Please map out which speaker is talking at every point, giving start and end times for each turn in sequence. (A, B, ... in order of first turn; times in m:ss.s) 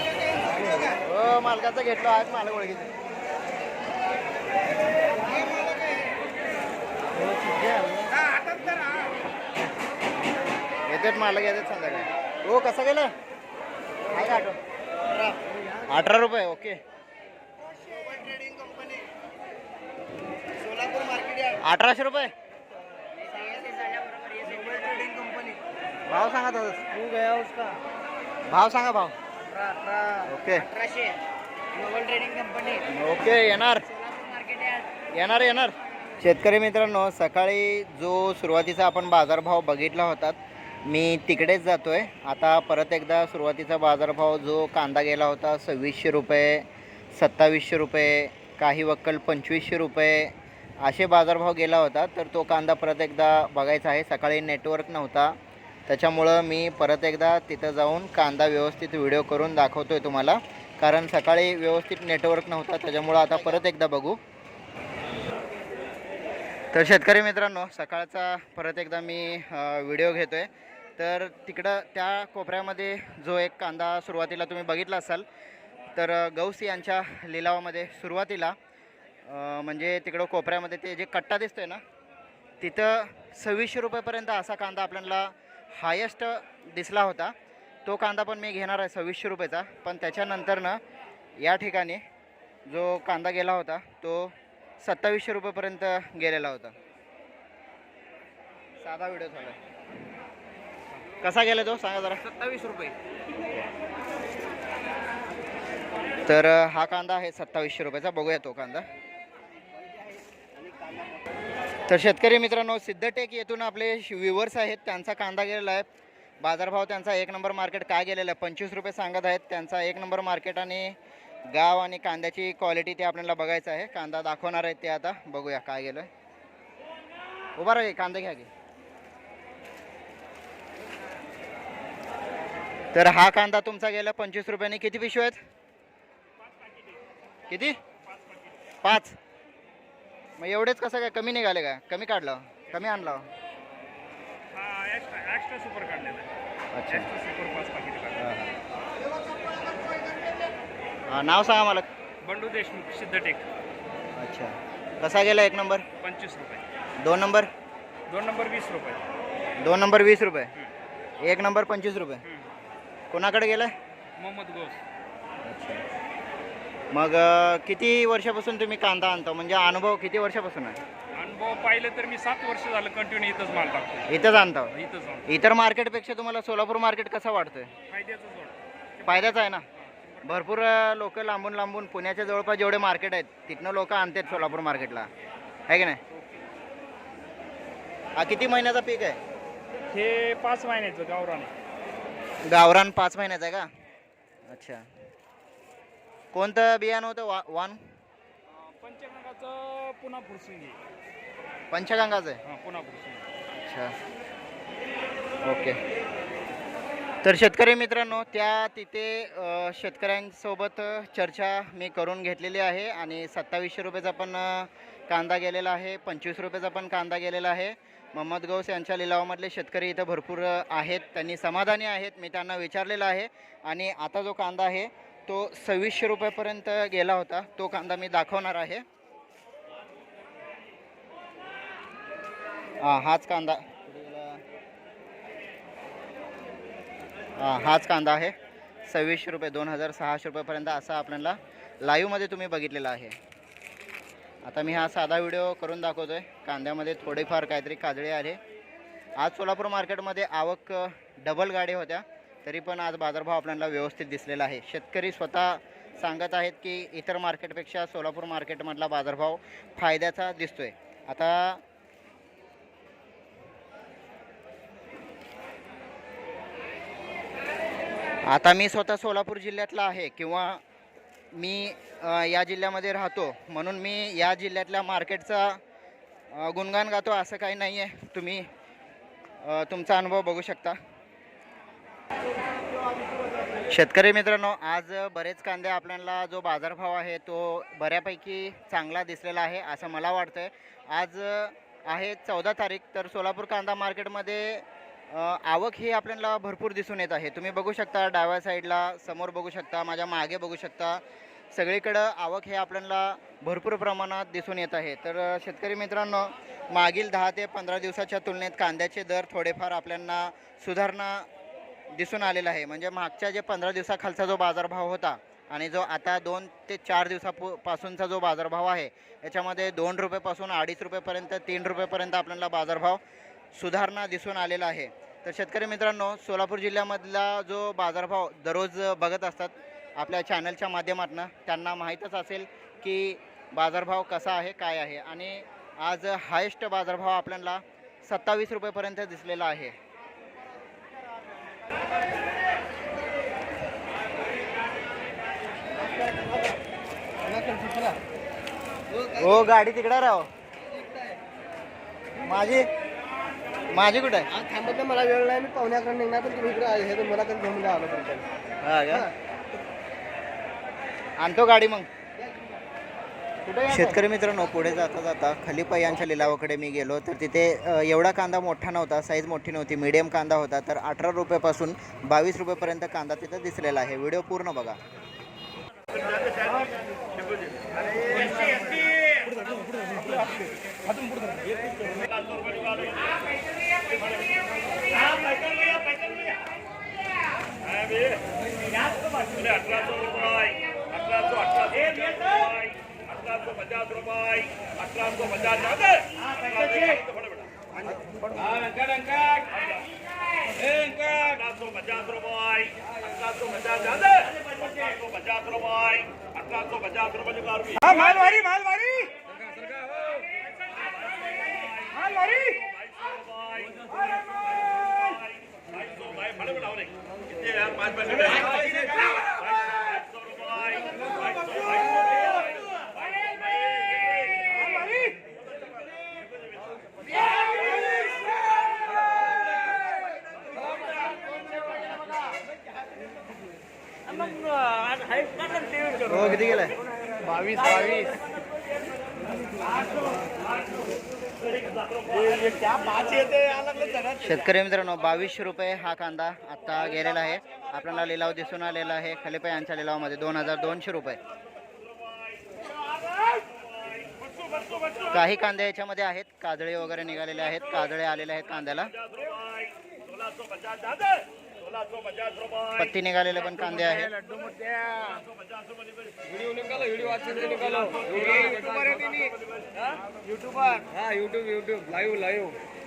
0:00.8-0:02.9 A
0:07.9-0:08.4 B
0:10.9-0:13.1 A
0:14.1-0:14.6 A
0:15.1-0:16.8 A
0:17.9-0:19.0 B
0:20.7-0:21.4 B
0:21.5-0:22.3 A
0:23.3-0:25.6 B
0:26.1-0:27.2 A
0:27.2-0:27.8 B
0:28.5-0:29.2 A
0:29.6-0:30.2 B
0:30.2-0:30.7 A
0:30.7-0:31.2 B
0:31.8-0:32.8 B
0:32.8-0:33.8 A
0:34.3-0:34.8 B
0:35.1-0:55.4 A
0:55.9-1:04.2 A
1:06.7-1:15.2 A
1:15.9-1:18.6 A
1:19.2-1:21.8 A
1:22.6-1:27.3 A
1:27.8-1:30.8 A
1:31.4-1:32.0 A
1:32.7-1:36.7 A
1:38.8-1:39.6 A
1:41.2-1:42.5 A
1:42.6-1:42.9 C
1:46.2-1:48.8 A
1:51.9-1:55.8 A
1:56.4-2:01.0 A
2:01.5-2:06.1 A
2:07.6-2:08.5 A
2:12.9-2:15.4 A
2:17.5-2:17.8 A
2:18.8-2:19.2 A
2:20.4-2:23.3 A
2:24.5-2:26.3 C
2:26.7-2:27.1 A
2:26.9-2:28.4 C
2:28.2-2:28.5 A
2:31.1-2:31.8 A
2:32.2-2:33.5 C
2:34.2-2:35.8 A
2:36.0-2:36.6 C
2:37.0-2:37.5 A
2:38.1-2:39.0 C
2:39.6-2:40.5 A
2:41.2-2:42.2 A
2:42.2-2:42.5 C
2:43.1-2:43.7 A
2:44.2-2:44.8 C
2:45.4-2:45.8 A
2:46.9-2:50.8 A
2:51.1-2:55.3 C
2:54.1-2:54.7 A
2:55.2-2:57.7 A
2:57.9-3:00.5 C
2:59.0-2:59.6 A
3:00.2-3:05.1 A
3:05.7-3:06.0 A
3:06.1-3:06.4 C
3:08.2-3:09.2 A
3:09.9-3:11.5 C
3:12.5-3:13.7 A
3:14.5-3:14.8 A
3:16.3-3:17.8 A
3:18.5-3:20.8 C
3:21.7-3:22.4 A
3:22.4-3:23.3 C
3:23.5-3:23.9 A
3:25.4-3:25.8 A
3:27.2-3:48.8 A
3:52.8-3:54.4 A
3:57.4-3:58.3 A
3:58.9-4:03.2 A
4:04.4-4:08.4 A
4:09.2-4:21.6 A
4:28.2-4:30.6 A
4:31.3-4:35.6 A
4:36.3-4:38.5 A
4:39.4-4:40.8 A
4:43.7-5:11.3 A
5:11.9-5:23.0 A
5:23.5-5:39.7 A
5:46.1-5:46.4 B
5:47.3-5:48.0 B
5:49.0-5:50.3 A
5:52.2-5:52.7 A
5:53.7-5:54.3 A
5:54.4-5:58.2 B
5:58.6-5:59.1 A
6:01.2-6:01.9 A
6:03.4-6:14.8 A
6:19.9-6:20.4 C
6:29.3-6:32.7 C
6:33.3-6:37.0 C
6:38.6-6:39.4 C
6:40.6-6:46.1 C
6:46.6-6:49.8 C
6:51.6-6:52.9 C
6:53.4-6:53.8 C
6:54.9-6:55.2 C
6:56.0-6:56.8 C
6:57.7-6:58.7 C
7:00.3-7:00.8 C
7:03.8-7:05.2 C
7:14.1-7:16.1 C
7:16.1-7:16.7 A
7:17.3-7:18.2 C
7:22.5-7:23.6 C
7:24.1-7:31.2 A
7:35.1-7:39.0 A
7:40.8-7:41.1 C
7:42.7-7:44.2 A
7:44.4-7:45.2 C
7:46.4-7:49.3 C
7:46.7-7:49.3 B
7:50.6-7:52.5 C
7:51.5-7:52.4 B